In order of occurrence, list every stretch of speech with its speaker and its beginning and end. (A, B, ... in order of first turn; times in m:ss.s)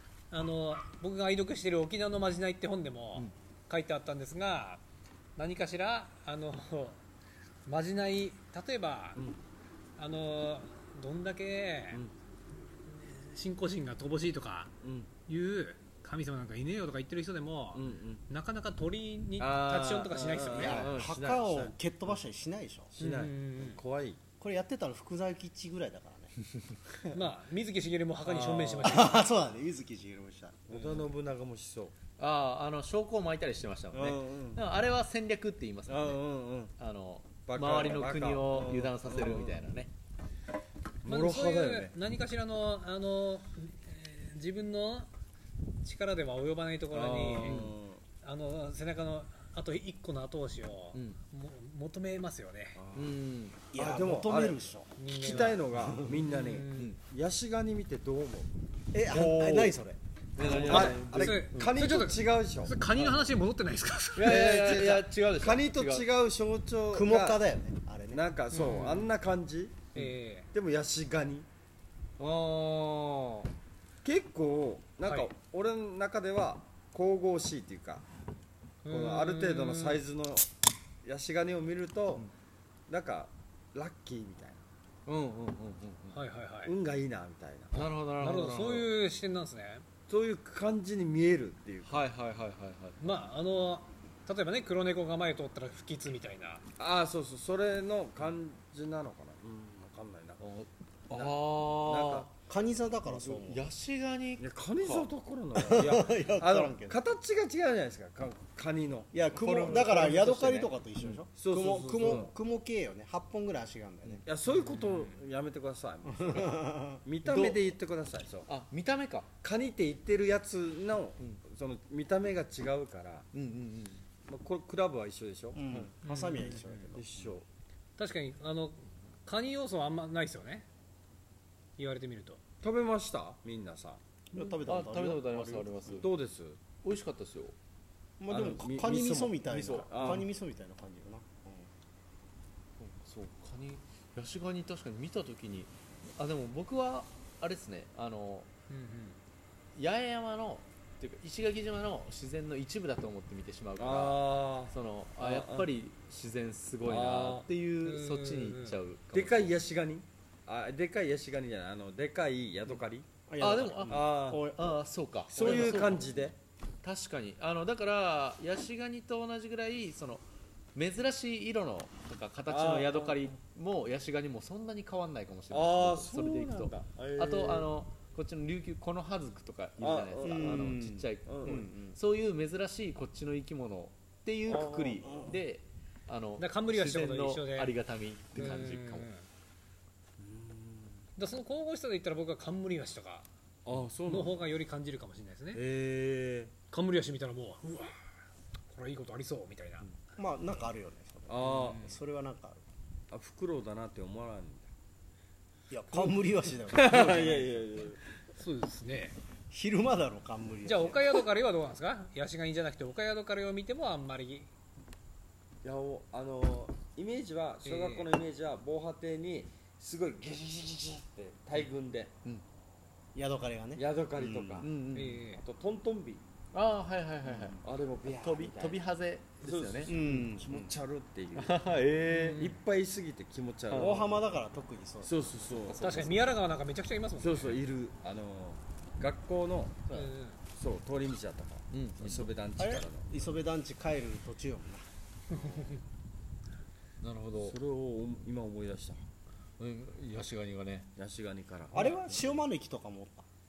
0:00.3-0:04.8 A
0:05.4-0:07.0 A
0:07.6-0:09.2 A
0:10.0-0:12.0 A
0:12.9-0:14.7 A
0:14.8-0:15.1 B
0:15.3-0:20.9 A
0:17.7-0:18.2 B
0:19.4-0:21.7 B
0:20.6-0:22.9 C
0:20.6-0:21.1 D
0:23.0-0:24.2 B
0:23.0-0:23.8 A
0:24.4-0:26.3 C
0:27.1-0:29.2 A
0:28.2-0:29.0 B
0:28.8-0:30.9 C
0:30.7-0:31.9 B
0:32.2-0:36.2 D
0:33.9-0:34.6 B
0:35.9-0:36.7 B
0:36.8-0:39.9 D
0:37.4-0:39.7 B
0:41.0-0:41.9 B
0:41.1-0:45.1 A
0:45.8-0:47.6 A
0:46.9-0:48.0 B
0:47.4-0:47.7 D
0:48.2-0:52.8 A
0:52.7-0:53.1 B
0:52.9-0:53.6 D
0:53.7-0:54.9 C
0:53.7-0:58.5 B
0:55.0-0:55.6 A
0:55.8-0:56.2 C
0:56.2-0:56.9 A
0:58.9-1:00.0 C
0:59.1-0:59.8 D
1:00.4-1:01.7 D
1:00.4-1:02.8 B
1:00.5-1:04.4 A
1:02.9-1:03.3 D
1:04.2-1:06.1 D
1:04.2-1:07.4 B
1:06.9-1:08.2 C
1:08.1-1:09.9 B
1:08.5-1:09.1 A
1:09.9-1:10.5 A
1:10.5-1:11.5 B
1:12.2-1:13.4 B
1:12.2-1:13.4 D
1:14.0-1:18.0 B
1:18.8-1:20.0 A
1:18.9-1:20.5 B
1:21.0-1:22.2 B
1:22.9-1:24.6 B
1:25.0-1:26.2 D
1:26.1-1:26.7 A
1:26.6-1:27.8 B
1:27.7-1:28.9 D
1:27.8-1:29.9 A
1:30.1-1:32.1 B
1:31.8-1:33.0 D
1:33.0-1:36.6 A
1:36.8-1:40.4 B
1:40.4-1:42.3 D
1:41.1-1:42.3 B
1:42.5-1:43.6 C
1:43.0-1:45.1 D
1:44.4-1:49.8 B
1:45.5-1:47.0 C
1:49.1-1:54.2 C
1:49.3-1:51.2 D
1:51.3-1:52.3 B
1:54.2-1:58.5 B
1:54.5-1:55.1 A
1:56.0-1:57.0 C
1:57.2-1:57.6 D
1:58.5-1:59.3 D
1:59.4-2:03.3 B
2:03.3-2:04.0 D
2:04.3-2:05.6 B
2:05.5-2:07.0 C
2:06.0-2:06.8 A
2:06.9-2:07.4 B
2:08.0-2:10.6 A
2:11.8-2:12.4 A
2:12.6-2:14.0 B
2:14.3-2:16.0 C
2:14.4-2:16.1 D
2:16.0-2:16.6 B
2:16.8-2:17.5 D
2:18.2-2:21.7 C
2:18.3-2:20.3 B
2:19.5-2:20.2 D
2:22.8-2:28.5 D
2:28.7-2:29.2 A
2:29.8-2:39.5 D
2:33.8-2:35.7 B
2:36.8-2:37.5 B
2:37.8-2:38.8 A
2:39.1-2:43.1 B
2:43.3-2:46.0 C
2:43.4-2:46.3 D
2:43.9-2:44.5 B
2:45.3-2:46.4 B
2:46.8-2:50.2 D
2:50.7-3:09.1 D
2:52.5-2:53.2 B
2:55.5-2:57.7 B
2:59.8-3:01.6 B
3:00.2-3:02.0 C
3:04.5-3:05.2 B
3:05.0-3:05.3 C
3:06.4-3:07.7 A
3:08.4-3:09.2 A
3:10.2-3:11.0 B
3:11.2-3:13.3 A
3:13.6-3:14.4 B
3:14.0-3:15.6 A
3:15.5-3:16.5 B
3:16.7-3:18.0 A
3:18.7-3:19.8 A
3:20.2-3:22.6 C
3:21.3-3:21.8 B
3:21.4-3:22.0 A
3:23.1-3:24.7 B
3:25.7-3:27.6 C
3:26.7-3:28.0 B
3:28.4-3:29.2 A
3:29.5-3:31.1 C
3:30.6-3:34.5 A
3:35.6-3:42.1 B
3:37.6-3:38.0 A
3:43.1-3:44.7 C
3:43.8-3:44.7 B
3:44.6-3:45.2 D
3:44.9-3:45.4 A
3:45.3-3:46.2 B
3:46.5-3:50.1 D
3:47.2-3:47.6 C
3:47.6-3:48.8 B
3:49.4-3:51.6 B
3:49.9-3:50.7 C
3:51.3-3:52.4 D
3:52.1-3:52.6 A
3:52.4-3:54.2 B
3:53.7-3:54.0 D
3:53.7-3:55.2 C
3:55.0-3:55.9 B
3:55.7-3:56.4 D
3:55.8-3:57.6 A
3:57.2-4:00.0 B
3:59.9-4:00.4 A
4:00.6-4:03.0 B
4:01.7-4:02.3 D
4:02.6-4:04.8 C
4:05.3-4:05.8 A
4:07.0-4:07.6 D
4:07.4-4:09.0 B
4:09.6-4:10.9 D
4:11.0-4:12.4 B
4:11.7-4:13.2 C